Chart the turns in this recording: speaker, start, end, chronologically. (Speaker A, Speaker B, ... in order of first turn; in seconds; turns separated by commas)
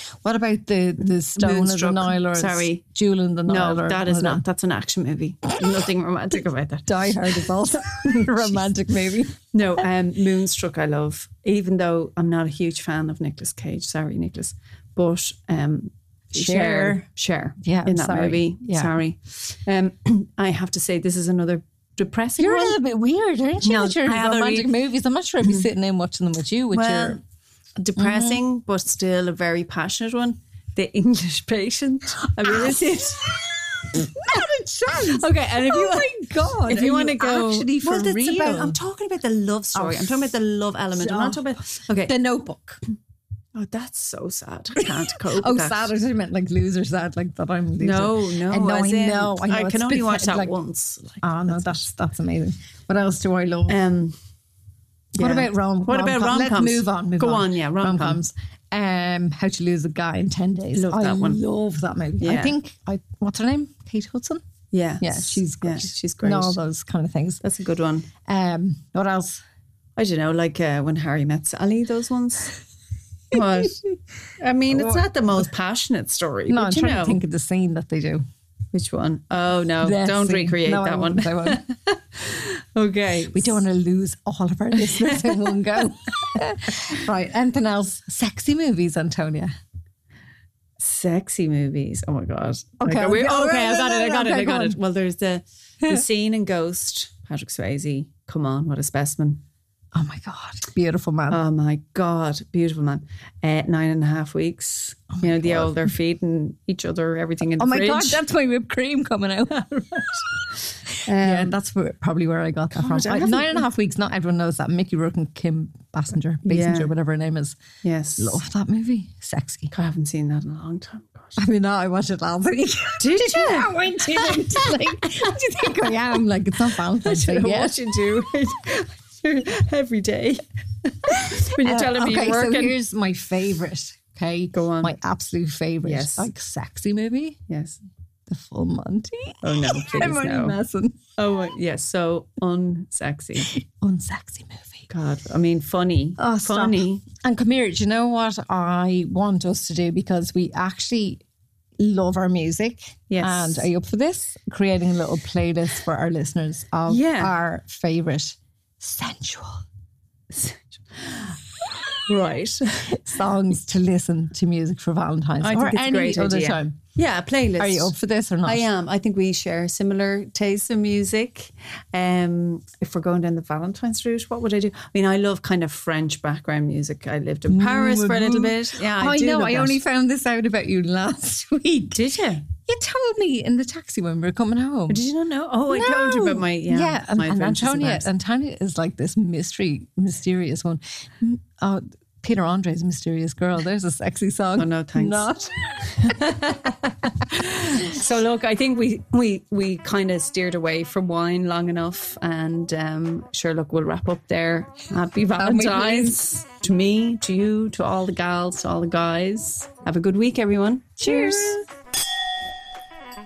Speaker A: 0.2-4.4, Speaker B: 1.4-2.8, Speaker B: 3.5-8.7, Speaker A: 6.9-9.4, Speaker B: 9.5-22.8, Speaker A: 16.3-17.1, Speaker A: 17.6-18.9, Speaker A: 22.4-27.2, Speaker B: 23.6-24.7, Speaker B: 25.4-25.7, Speaker B: 26.7-27.2, Speaker B: 27.8-33.4, Speaker A: 28.0-28.4, Speaker A: 32.5-38.8, Speaker B: 35.0-42.1, Speaker A: 39.7-40.3, Speaker A: 40.9-41.4, Speaker A: 42.1-42.8, Speaker B: 43.5-45.9, Speaker A: 44.8-50.5, Speaker B: 47.8-51.9, Speaker A: 51.2-53.8, Speaker B: 53.7-54.2, Speaker A: 55.2-64.4, Speaker B: 55.2-58.2, Speaker B: 60.8-61.4, Speaker B: 62.2-62.6, Speaker B: 64.7-66.6, Speaker A: 65.0-67.4, Speaker B: 67.4-68.1, Speaker A: 68.3-69.4, Speaker B: 70.0-72.5, Speaker B: 73.3-73.8, Speaker B: 74.4-77.2, Speaker A: 74.7-75.0, Speaker A: 76.5-78.2, Speaker B: 78.7-83.6, Speaker A: 79.8-81.6, Speaker A: 83.3-89.5, Speaker B: 84.9-85.4, Speaker B: 90.8-99.4, Speaker A: 92.8-94.8, Speaker A: 100.0-101.4, Speaker B: 101.3-108.2, Speaker A: 105.3-105.7, Speaker A: 107.6-109.7, Speaker B: 109.5-110.4, Speaker B: 111.0-111.6, Speaker A: 111.1-117.6, Speaker B: 112.8-113.7, Speaker B: 116.5-116.9, Speaker B: 117.8-118.4, Speaker A: 118.2-119.7, Speaker B: 119.7-121.3, Speaker A: 121.4-127.8, Speaker B: 123.0-125.4, Speaker B: 127.0-132.8, Speaker A: 131.6-137.4, Speaker B: 134.5-134.9, Speaker B: 135.8-136.3, Speaker B: 137.5-137.8, Speaker A: 138.3-141.0, Speaker B: 139.4-140.6, Speaker B: 141.2-143.5, Speaker A: 143.4-144.9, Speaker B: 144.9-147.0, Speaker A: 146.2-151.2, Speaker A: 151.8-159.6, Speaker B: 153.1-153.7, Speaker B: 156.9-157.3, Speaker B: 160.3-161.3, Speaker B: 162.1-162.9, Speaker A: 163.0-166.8, Speaker B: 165.4-167.9, Speaker A: 167.6-168.7, Speaker B: 168.4-179.8, Speaker A: 177.5-185.0, Speaker B: 181.9-182.4, Speaker B: 184.9-188.1, Speaker A: 185.7-196.0, Speaker B: 194.6-195.3, Speaker B: 196.0-211.6, Speaker A: 205.4-206.2, Speaker A: 211.0-211.6